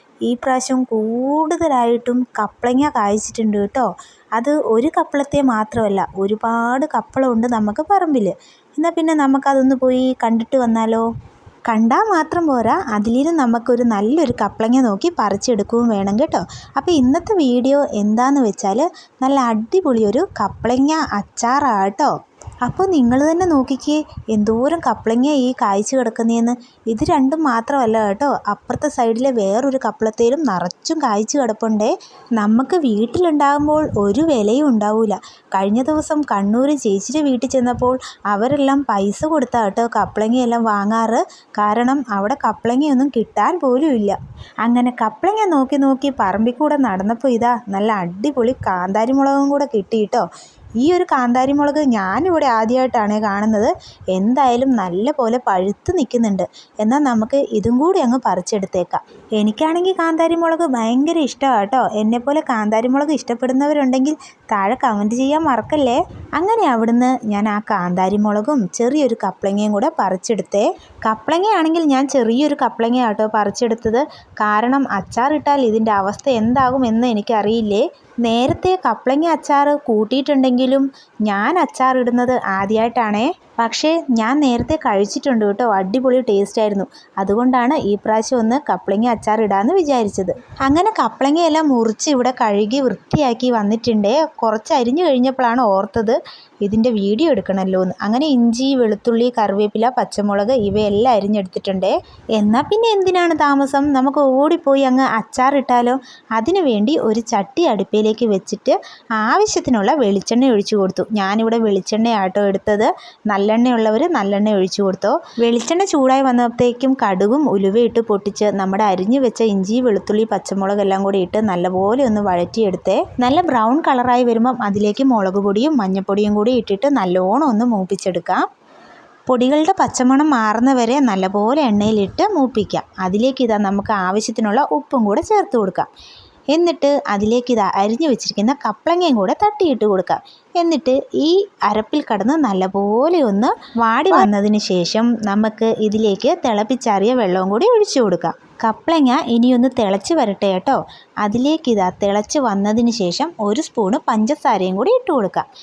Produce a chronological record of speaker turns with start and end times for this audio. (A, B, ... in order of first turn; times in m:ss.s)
0:00.3-0:11.1 A
0:11.7-0:22.1 A
0:22.6-0:50.2 A
0:50.8-2:08.4 A
2:09.3-2:15.9 A
2:16.5-2:35.4 A